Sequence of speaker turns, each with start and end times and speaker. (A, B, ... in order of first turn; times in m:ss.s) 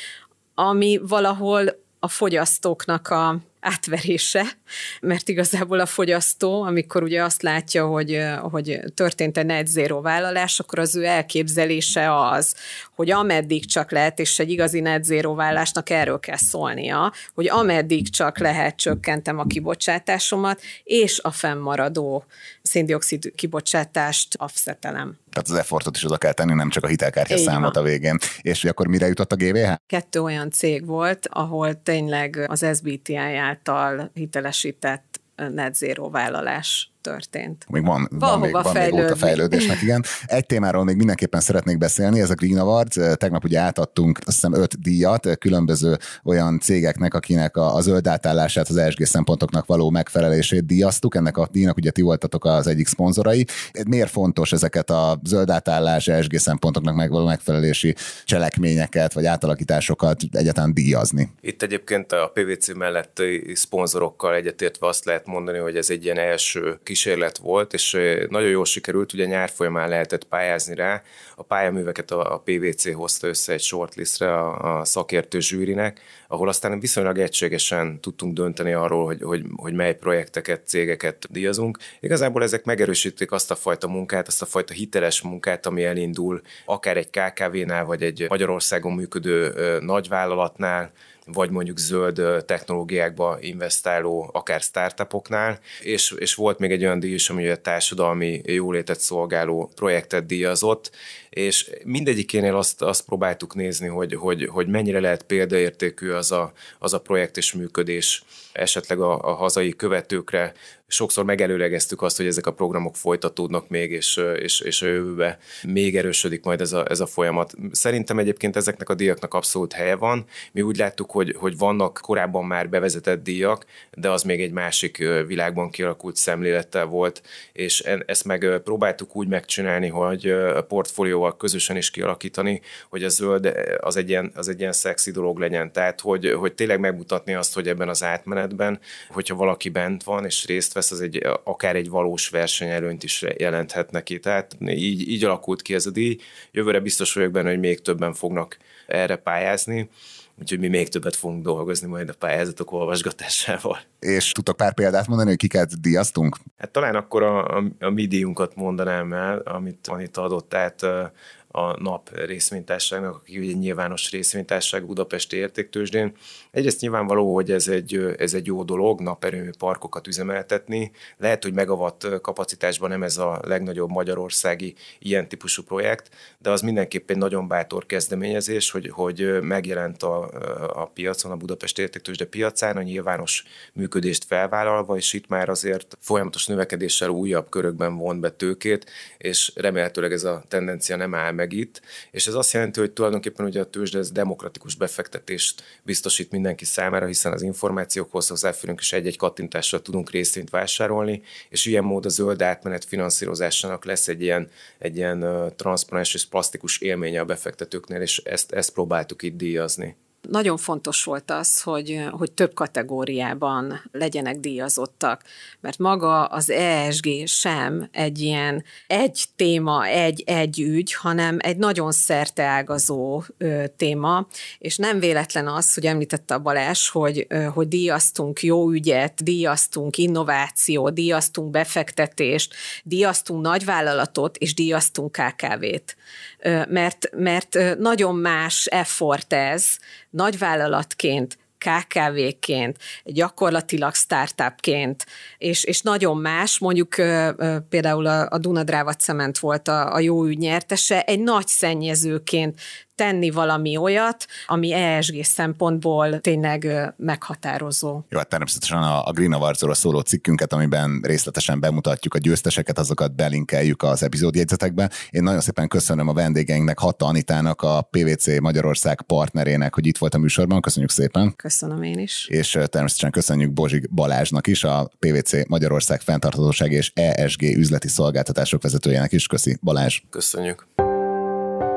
0:00.6-0:25.2 A
0:25.3-0:29.8 B
0:27.3-0:27.8 A
0:29.9-0:37.7 A
0:37.7-1:01.3 B
0:38.2-0:39.8 A
1:01.4-2:33.8 C
2:34.0-2:36.4 B
2:36.6-3:29.9 C
3:30.3-4:18.0 A
4:18.1-4:31.3 B
4:31.4-4:32.3 A
4:32.3-4:40.0 B
4:40.1-4:40.6 C